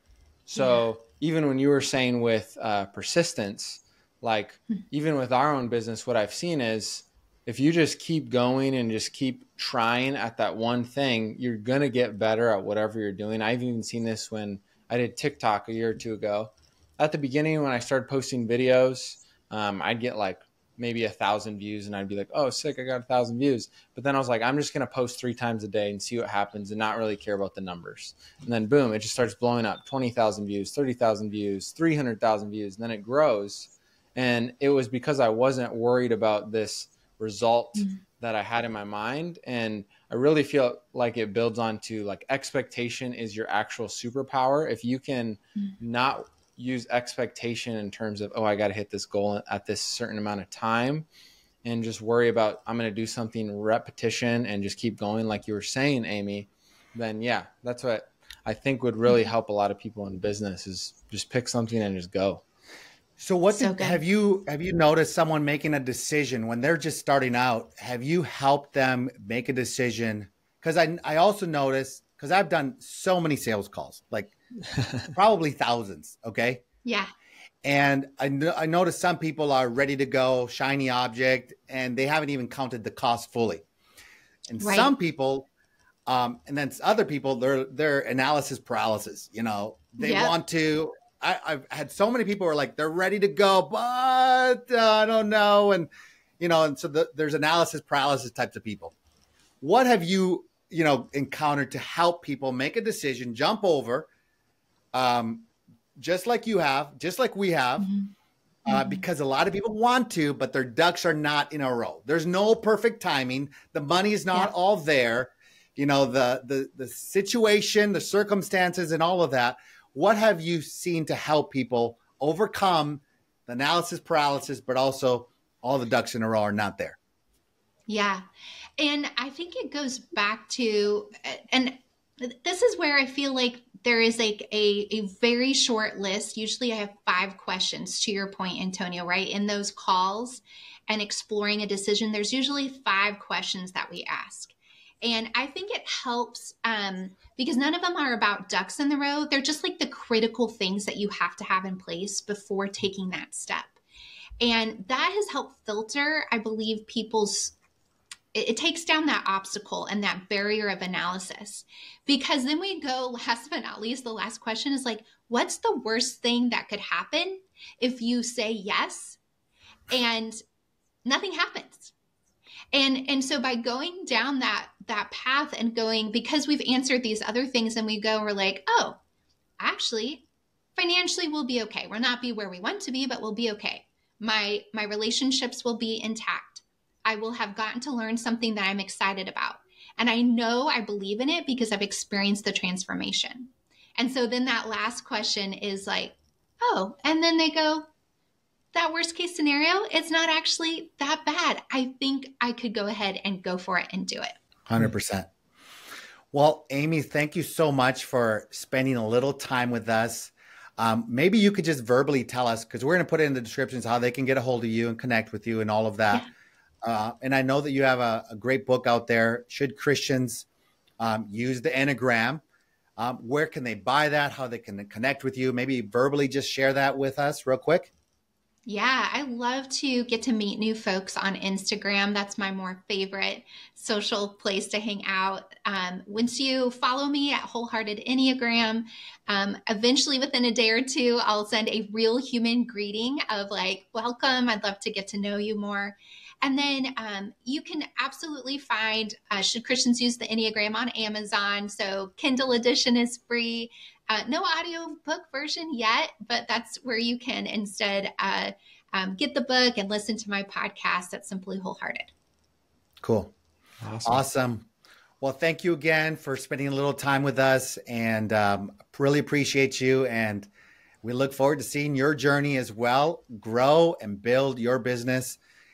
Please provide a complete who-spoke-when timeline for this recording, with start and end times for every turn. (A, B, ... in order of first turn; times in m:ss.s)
0:00.5-0:51.1 A
0:00.6-0:00.8 B
0:51.6-1:02.4 A
1:03.2-1:14.4 C
1:03.5-1:04.0 B
1:15.1-1:16.6 C
1:16.8-1:17.1 B
1:17.6-1:23.6 C
1:24.5-1:25.5 C
1:24.6-1:24.9 B
1:26.1-1:35.9 C
1:30.0-1:30.4 B
1:36.4-1:38.9 C
1:39.6-1:44.1 C
1:44.9-1:47.9 C
1:47.8-1:48.1 B
1:48.7-1:49.0 B
1:48.7-2:07.0 C
2:07.9-2:08.2 B
2:08.8-2:33.8 B
2:34.4-2:37.6 B
2:38.3-2:49.2 B
2:49.9-2:50.4 B
2:51.0-2:51.9 B
2:52.7-2:59.0 B
2:59.6-3:17.9 B
3:18.7-3:24.4 B
3:24.7-3:25.3 C
3:26.3-3:36.3 C
3:36.8-3:40.5 C
3:41.0-3:42.4 C
3:43.0-3:47.9 C
3:48.7-4:22.1 B
4:23.0-4:23.3 C
4:23.8-4:24.2 A
4:24.0-4:24.7 C
4:25.2-4:30.5 C
4:31.0-4:35.4 C